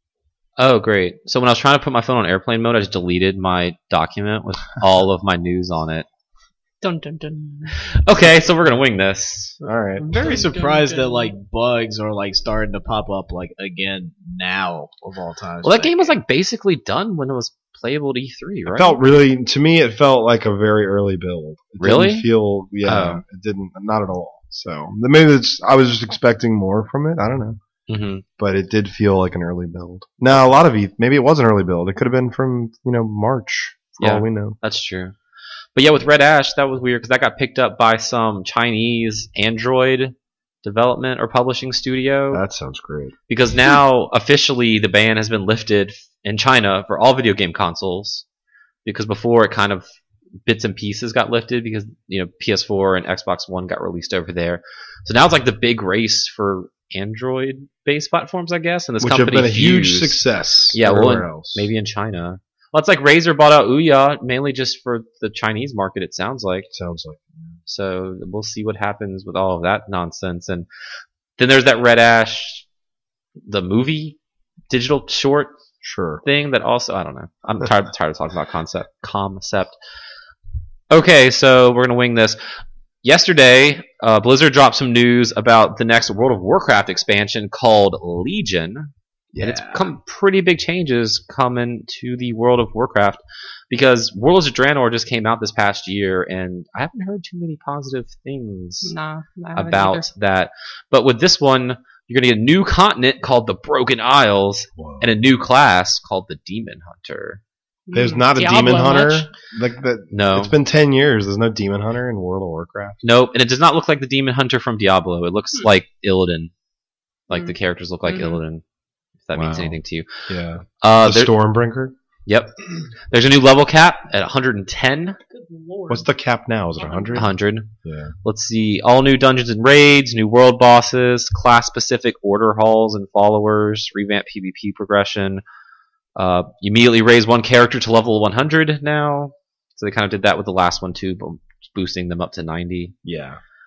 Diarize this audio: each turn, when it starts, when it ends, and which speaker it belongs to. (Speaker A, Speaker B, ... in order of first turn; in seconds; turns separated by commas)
Speaker A: 0.6-6.1, Speaker B: 6.8-7.7, Speaker A: 7.7-9.6, Speaker C: 9.6-10.2, Speaker B: 10.0-11.3, Speaker D: 10.0-16.2, Speaker A: 15.6-19.0, Speaker C: 18.7-27.6, Speaker A: 21.8-22.3, Speaker A: 22.8-23.2, Speaker A: 27.9-28.2, Speaker C: 28.4-34.6, Speaker A: 34.0-35.1, Speaker A: 35.8-42.4, Speaker C: 42.3-43.1, Speaker A: 43.3-48.2, Speaker A: 48.9-49.9, Speaker A: 50.5-60.2, Speaker C: 59.0-61.7, Speaker A: 60.7-66.7, Speaker C: 66.7-67.5, Speaker A: 67.7-70.7, Speaker A: 71.4-72.7, Speaker A: 73.5-74.2, Speaker A: 74.7-75.5, Speaker C: 75.8-76.2, Speaker A: 76.2-79.8, Speaker A: 80.9-98.9, Speaker D: 89.3-89.9, Speaker B: 98.8-100.1, Speaker A: 99.5-107.4, Speaker C: 104.8-105.1, Speaker B: 107.9-109.3, Speaker C: 107.9-113.0, Speaker A: 110.1-110.5, Speaker A: 113.0-116.5, Speaker A: 117.3-118.6, Speaker B: 118.0-118.4, Speaker A: 119.2-120.3, Speaker C: 119.3-122.0, Speaker A: 120.8-121.3, Speaker A: 122.3-122.5, Speaker A: 123.1-125.2, Speaker B: 125.3-126.1, Speaker C: 125.9-127.3, Speaker B: 126.8-127.3, Speaker A: 127.1-127.7, Speaker C: 127.8-128.1, Speaker A: 128.2-135.4, Speaker A: 136.2-142.9, Speaker C: 143.0-143.4